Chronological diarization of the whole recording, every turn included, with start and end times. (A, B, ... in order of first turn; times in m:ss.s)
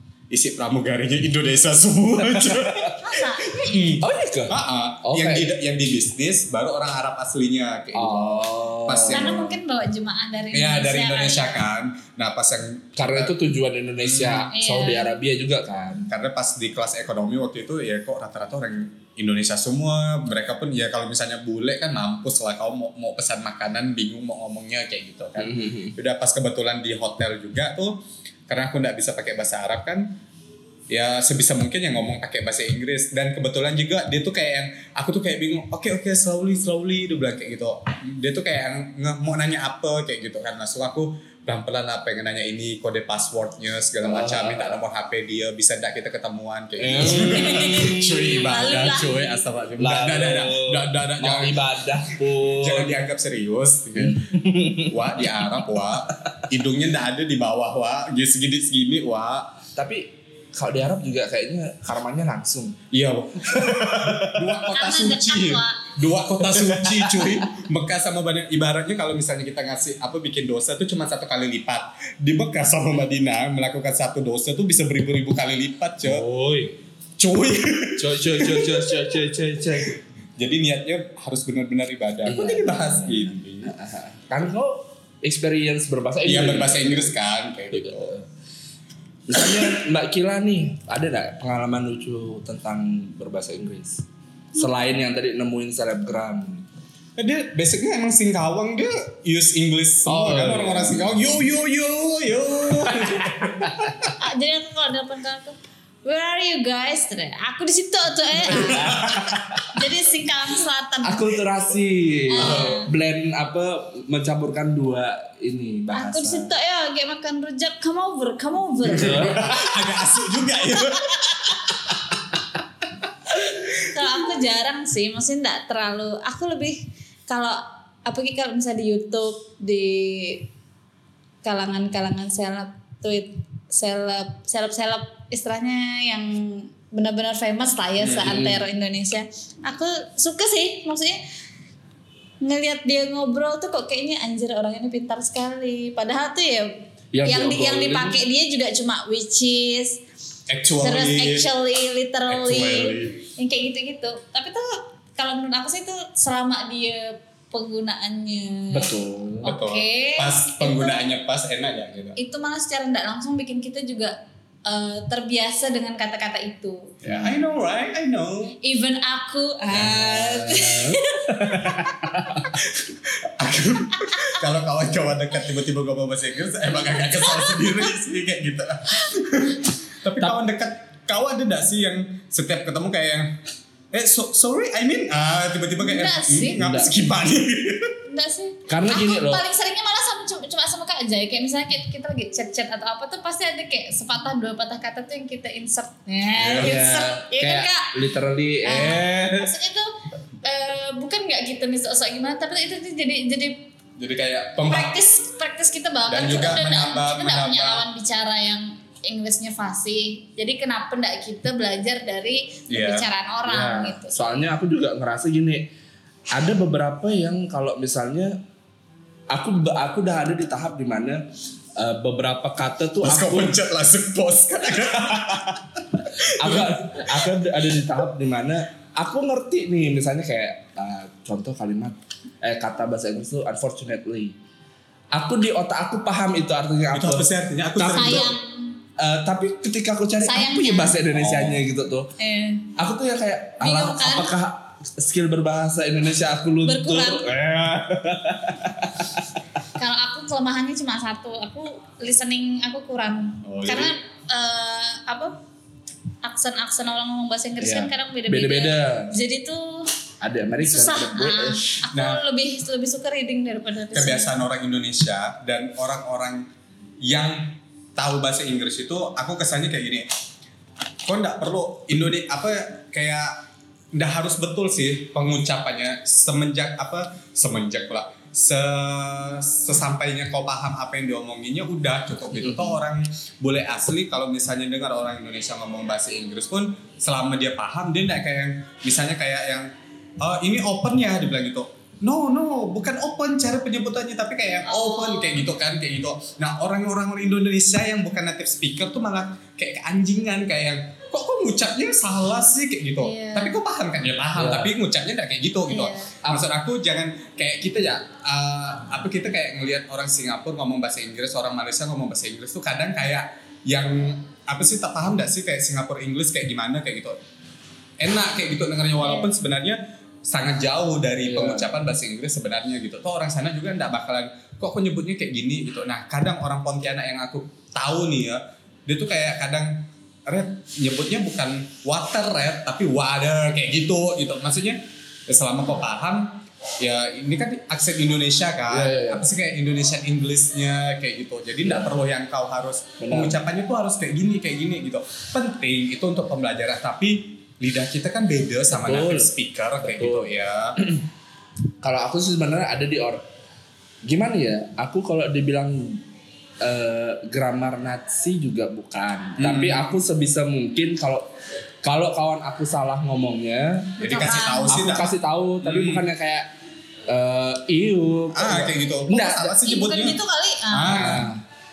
0:00.3-0:09.6 A
0:02.3-0:03.0 B
0:03.0-0:03.9 C
0:04.0-0:05.5 B
0:07.9-0:09.5 B
0:09.1-0:11.6 C
0:10.5-0:13.3 A
0:13.0-0:16.1 B
0:14.0-0:14.5 A
0:14.5-0:15.2 C
0:16.1-0:30.2 A
0:25.4-0:26.0 B
0:30.9-0:51.7 A
0:44.0-0:44.8 B
0:46.8-0:48.4 B
0:47.0-0:49.4 C
0:49.8-0:53.0 B
0:52.3-0:59.6 A
0:54.0-0:55.0 B
0:59.8-1:02.8 B
1:02.9-1:16.2 A
1:03.5-1:04.4 B
1:04.7-1:05.9 C
1:06.5-1:07.4 B
1:16.0-1:16.8 B
1:17.2-1:23.7 A
1:18.0-1:20.0 B
1:22.3-1:27.2 B
1:26.2-1:28.2 A
1:27.7-1:28.3 B
1:29.3-1:36.7 B
1:29.4-1:29.7 A
1:37.2-1:44.2 A
1:40.1-1:41.4 B
1:42.9-1:44.1 B
1:44.2-1:49.1 C
1:48.5-1:49.6 A
1:48.5-1:49.7 B
1:49.7-1:51.4 C
1:51.0-1:56.5 B
1:52.3-1:52.9 C
1:52.4-1:52.8 A
1:55.9-1:59.5 C
1:58.8-2:01.6 A
1:58.9-1:59.6 B
2:00.8-2:01.4 C
2:03.7-2:10.5 C
2:11.4-2:21.2 C
2:18.0-2:18.5 A
2:18.2-2:18.6 B
2:22.4-2:30.0 C
2:27.1-2:28.2 B
2:30.5-2:31.5 A
2:30.8-2:41.1 C
2:32.3-2:33.3 A
2:38.7-2:39.5 B
2:39.4-2:42.2 A
2:42.2-2:47.0 C
2:47.0-2:47.3 B
2:47.0-2:48.6 A
2:48.6-2:51.8 C
2:49.7-2:52.6 B
2:52.4-3:03.4 A
2:57.1-2:57.7 C
3:03.9-3:08.0 A
3:05.8-3:06.6 C
3:06.6-3:06.9 B
3:08.1-3:17.9 C
3:08.7-3:09.4 B
3:16.4-3:16.8 A
3:16.6-3:19.5 B
3:18.6-3:19.9 C
3:20.4-3:23.7 C
3:24.0-3:25.0 A
3:24.6-3:34.2 C
3:26.1-3:27.9 A
3:32.7-3:33.1 A
3:33.5-3:35.7 B
3:36.3-3:38.4 B
3:39.3-3:43.6 B
3:43.0-3:47.3 A
3:46.2-3:54.4 B
3:55.1-3:58.4 B
3:56.9-3:58.4 A
3:57.9-3:58.8 C
3:59.0-4:02.1 B
4:00.2-4:01.0 C
4:01.2-4:01.6 A
4:02.2-4:02.7 C
4:02.8-4:09.3 B
4:03.6-4:04.3 C
4:06.6-4:07.3 C
4:09.8-4:15.4 C
4:13.4-4:14.0 A
4:16.2-4:19.9 C
4:17.6-4:19.2 B
4:20.2-4:21.7 B
4:20.6-4:24.4 C
4:21.9-4:22.2 A
4:23.9-4:26.5 A
4:27.0-4:30.1 A
4:31.0-5:17.2 A
4:42.4-4:42.8 B
4:54.7-4:55.4 C
5:03.0-5:03.6 C
5:04.4-5:04.7 B
5:05.7-5:06.1 C
5:18.0-5:50.8 A
5:19.0-5:19.3 C
5:21.2-5:21.7 B
5:38.7-5:39.3 B
5:41.6-5:41.9 B
5:43.0-5:43.4 B
5:48.7-5:51.0 B
5:51.8-5:53.2 B
5:54.0-5:56.0 B
5:56.6-6:01.3 B
5:59.4-5:59.9 A
6:01.8-6:06.5 B
6:04.0-6:04.8 C
6:04.0-6:06.0 A
6:07.1-6:09.6 B
6:08.3-6:10.2 A
6:09.6-6:11.2 C
6:10.7-6:11.3 A
6:10.9-6:11.4 B